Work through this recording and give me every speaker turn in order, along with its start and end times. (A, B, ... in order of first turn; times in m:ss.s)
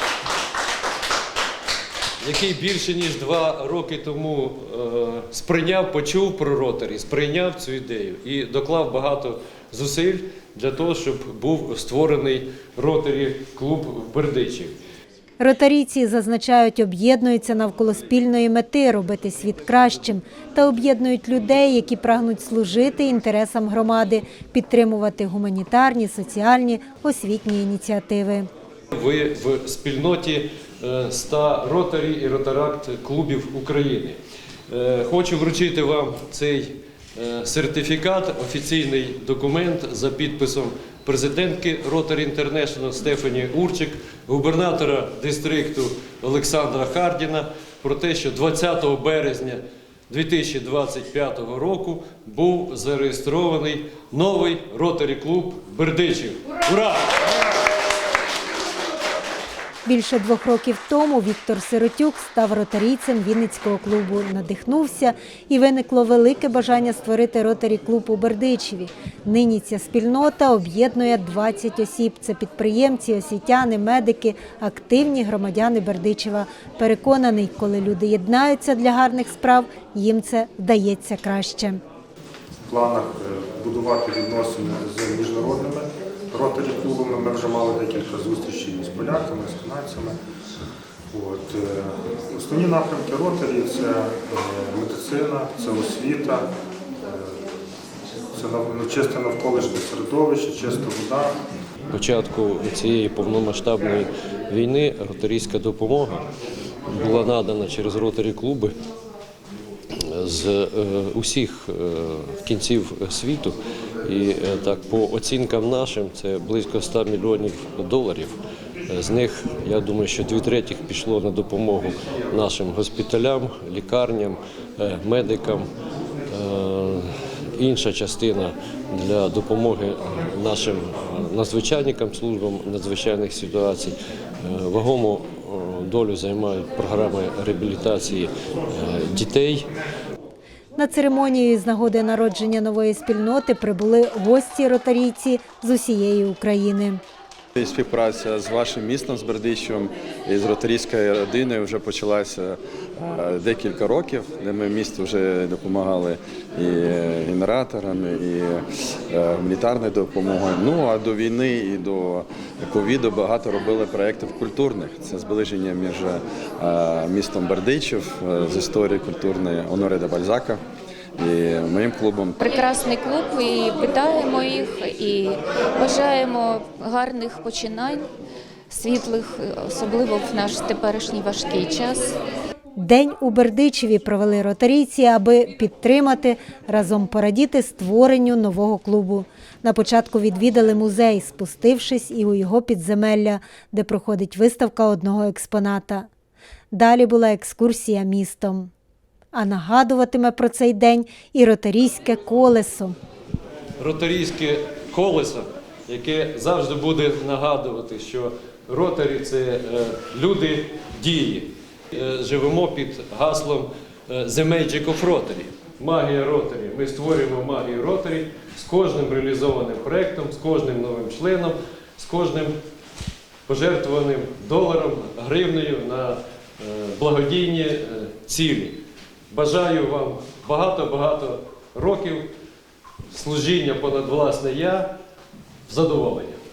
0:02.2-0:14.8 A
0:15.4-0:28.5 B
0:28.9-0:57.3 A
0:59.8-1:21.8 B
1:22.7-1:30.2 C
1:31.1-1:36.5 C
1:38.3-1:41.3 C
1:41.9-1:46.2 A
1:46.9-1:48.8 A
1:49.9-2:05.7 A
2:06.3-2:19.7 A
2:20.8-2:27.0 B
2:27.6-2:50.6 D
2:51.2-2:52.4 D
2:52.4-2:58.1 E
2:58.7-3:02.2 E
3:02.8-3:16.1 B
3:16.7-3:18.7 B
3:19.3-3:23.0 B
3:23.8-3:42.5 A
3:43.4-3:52.3 A
3:53.1-3:54.9 A
3:55.7-3:56.4 A